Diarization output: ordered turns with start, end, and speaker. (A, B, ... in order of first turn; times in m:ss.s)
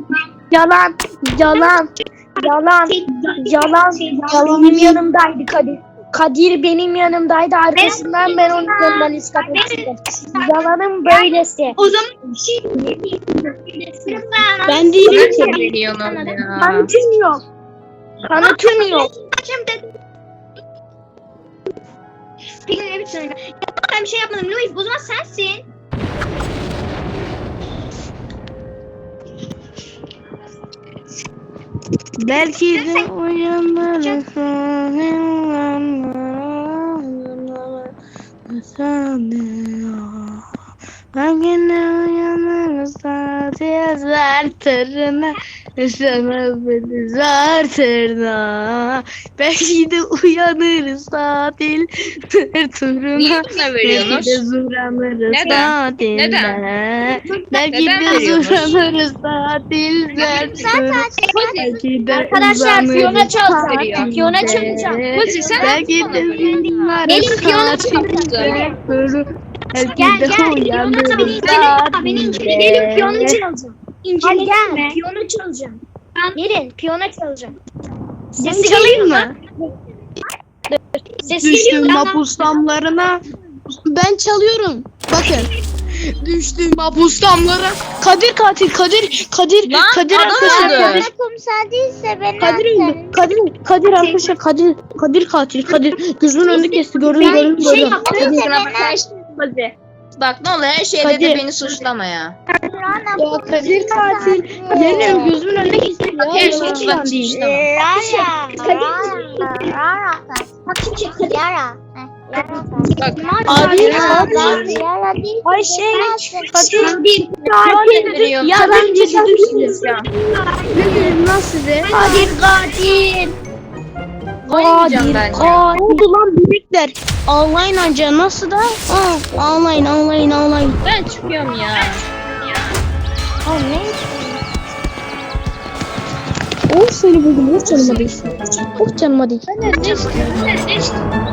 0:00.5-0:11.8 A
0:02.9-0:04.2 B
0:04.3-0:05.0 C
0:07.8-0:16.4 B
0:14.7-0:15.6 C
0:15.1-0:16.9 D
0:16.6-0:17.4 C
0:18.2-0:19.1 A
0:18.4-0:19.8 B
0:22.7-0:25.6 B
0:32.2-0:37.9 C
0:32.3-0:33.1 B
0:38.5-0:40.4 C
0:41.1-1:04.3 C
0:53.2-0:54.4 D
0:55.3-0:56.6 D
0:57.7-0:58.9 D
1:00.1-1:01.8 E
1:01.3-1:01.8 D
1:02.1-1:05.6 A
1:02.8-1:07.4 D
1:05.4-1:13.4 C
1:05.6-1:08.8 B
1:07.0-1:08.8 A
1:08.0-1:08.7 D
1:09.8-1:12.5 B
1:11.1-1:15.8 A
1:12.1-1:13.3 D
1:14.2-1:15.0 B
1:16.4-1:17.6 A
1:18.4-1:19.4 C
1:18.4-1:19.4 B
1:21.2-1:22.3 A
1:21.4-1:23.2 C
1:23.8-1:25.5 C
1:26.0-1:31.1 C
1:29.7-1:31.1 D
1:30.1-1:33.2 E
1:32.4-1:38.1 C
1:34.0-1:34.3 B
1:37.1-1:39.0 E
1:37.2-1:38.5 B
1:37.2-1:37.9 A
1:37.6-1:42.4 D
1:41.0-1:41.4 C
1:42.7-1:45.3 E
1:43.2-1:47.4 C
1:44.9-1:47.2 A
1:46.3-1:47.7 D
1:47.4-1:50.5 E
1:48.0-1:49.6 A
1:48.0-1:48.7 B
1:50.7-1:51.4 A
1:51.2-1:52.9 E
1:52.4-1:54.7 A
1:53.0-1:54.6 B
1:53.0-1:54.7 D
1:53.5-1:54.8 C
1:53.8-1:56.9 E
1:55.4-1:57.0 C
1:56.7-1:57.1 B
1:56.8-2:01.2 A
1:57.6-1:59.8 C
1:57.7-2:00.1 D
2:00.7-2:01.9 C
2:01.9-2:02.4 B
2:01.9-2:03.4 A
2:04.5-2:05.7 D
2:04.5-2:06.0 A
2:05.7-2:10.8 C
2:10.8-2:12.0 D
2:13.4-2:14.4 A
2:16.7-2:19.5 C
2:17.7-2:18.1 D
2:19.5-2:21.0 D
2:19.8-2:20.3 A